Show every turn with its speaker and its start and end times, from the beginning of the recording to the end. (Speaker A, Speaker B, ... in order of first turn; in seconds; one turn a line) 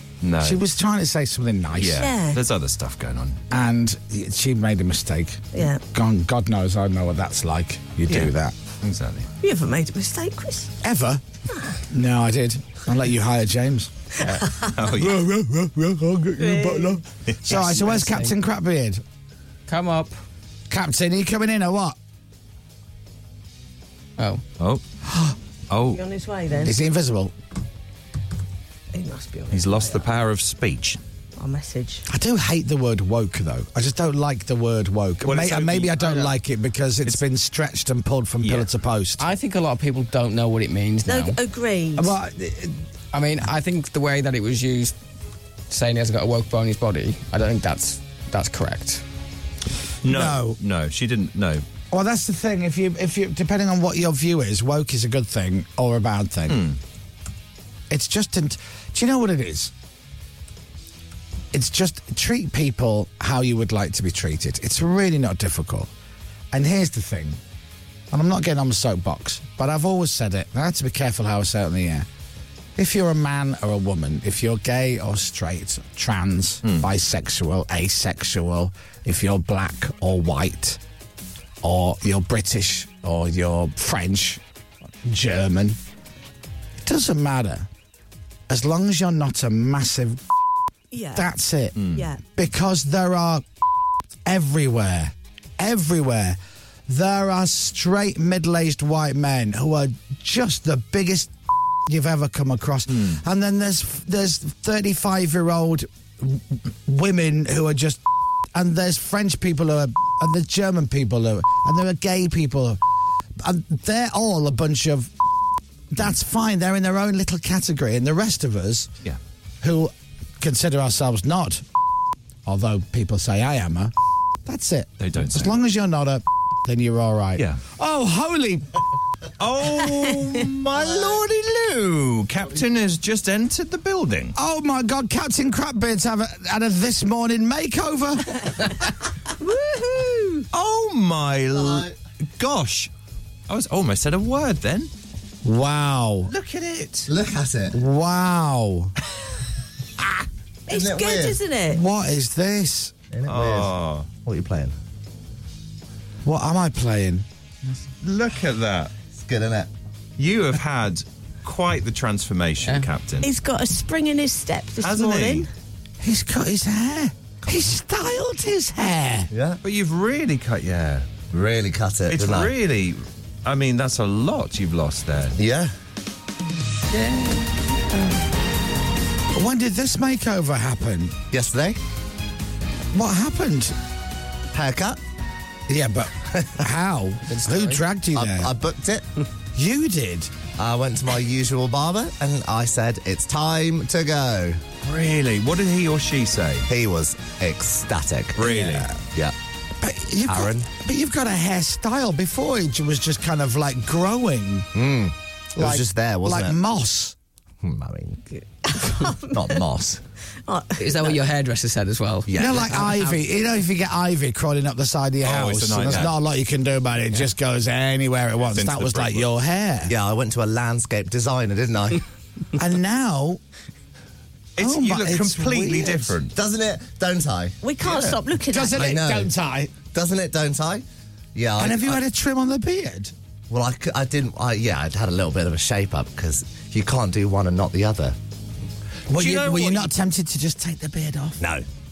Speaker A: 0.2-0.6
Speaker B: 0.4-2.0
Speaker A: 1.8-3.4
Speaker C: 1.9-2.4
Speaker B: 3.5-8.5
Speaker C: 5.5-5.8
Speaker A: 8.1-9.3
Speaker C: 9.4-10.7
Speaker B: 10.8-11.2
Speaker B: 11.9-13.9
Speaker C: 14.3-14.8
Speaker A: 14.7-15.2
Speaker B: 14.9-19.0
Speaker C: 16.4-17.0
Speaker A: 17.3-17.6
Speaker D: 17.7-18.3
Speaker D: 19.7-20.2
Speaker B: 20.7-22.0
Speaker D: 24.2-24.4
Speaker B: 25.1-25.3
Speaker A: 25.7-26.0
Speaker C: 25.9-26.8
Speaker B: 26.6-27.3
Speaker C: 28.9-30.1
Speaker A: 29.5-31.0
Speaker C: 31.4-32.0
Speaker B: 32.1-39.2
Speaker A: 35.2-36.2
Speaker A: 38.4-38.7
Speaker D: 39.2-41.4
Speaker C: 41.0-42.1
Speaker B: 42.0-42.8
Speaker D: 43.1-44.9
Speaker D: 45.7-49.0
Speaker A: 50.0-51.6
Speaker B: 50.0-50.6
Speaker B: 51.9-56.7
Speaker A: 56.5-56.8
Speaker B: 57.9-59.7
Speaker B: 61.5-65.9
Speaker B: 66.5-67.4
Speaker B: 68.1-72.1
Speaker B: 72.8-80.8
Speaker B: 81.6-84.4
Speaker B: 85.0-85.8
Speaker B: 86.8-87.7
Speaker B: 88.5-90.2
Speaker C: 90.9-91.3
Speaker B: 91.1-93.4
Speaker A: 91.8-92.0
Speaker C: 91.9-92.2
Speaker B: 94.2-101.3
Speaker B: 101.8-108.0
Speaker A: 102.9-103.2
Speaker B: 108.5-112.8
Speaker B: 113.4-115.1
Speaker B: 115.9-118.9
Speaker B: 119.6-121.6
Speaker B: 122.5-123.9
Speaker B: 124.4-128.7
Speaker A: 125.0-125.5
Speaker A: 129.4-134.3
Speaker E: 130.8-131.2
Speaker B: 134.3-138.8
Speaker C: 139.4-140.5
Speaker A: 140.5-142.9
Speaker E: 141.5-141.9
Speaker A: 143.5-144.9
Speaker B: 145.4-146.3
Speaker A: 146.3-147.1
Speaker E: 147.1-147.8
Speaker B: 147.7-148.9
Speaker B: 150.0-150.2
Speaker C: 150.7-151.8
Speaker E: 150.7-151.4
Speaker B: 151.7-152.9
Speaker E: 153.1-153.7
Speaker A: 153.3-154.1
Speaker E: 154.2-154.7
Speaker B: 156.2-157.2
Speaker A: 158.0-158.9
Speaker E: 159.2-159.7
Speaker A: 160.2-163.3
Speaker C: 163.2-165.5
Speaker A: 164.8-165.5
Speaker B: 166.0-169.3
Speaker E: 169.3-169.6
Speaker A: 169.6-171.1
Speaker E: 171.3-172.5
Speaker A: 172.1-175.3
Speaker E: 175.3-175.7
Speaker D: 176.9-177.4
Speaker B: 179.3-181.2
Speaker E: 181.3-181.8
Speaker B: 182.9-183.8
Speaker E: 184.5-185.0
Speaker B: 185.7-188.5
Speaker D: 187.2-187.8
Speaker E: 188.1-189.0
Speaker B: 189.5-190.3
Speaker E: 190.6-194.6
Speaker A: 194.8-196.7
Speaker E: 196.7-199.3
Speaker A: 198.3-198.9
Speaker B: 198.6-198.9
Speaker B: 199.8-204.7
Speaker E: 200.2-200.7
Speaker E: 204.7-206.6
Speaker B: 205.6-207.2
Speaker E: 207.6-208.2
Speaker C: 208.4-209.6
Speaker E: 209.3-210.0
Speaker C: 210.4-211.2
Speaker D: 210.8-213.2
Speaker E: 212.3-212.9
Speaker B: 212.3-219.9
Speaker A: 215.2-216.1
Speaker A: 218.5-219.3
Speaker E: 219.9-222.0
Speaker B: 222.6-223.4
Speaker A: 224.6-226.3
Speaker B: 224.6-226.2
Speaker E: 226.3-228.2
Speaker C: 227.6-229.0
Speaker B: 228.5-229.7
Speaker E: 228.7-229.3
Speaker E: 229.9-230.8
Speaker E: 231.3-232.0
Speaker B: 231.6-233.1
Speaker E: 233.5-238.2
Speaker B: 239.1-241.4
Speaker A: 239.1-239.9
Speaker E: 241.4-241.6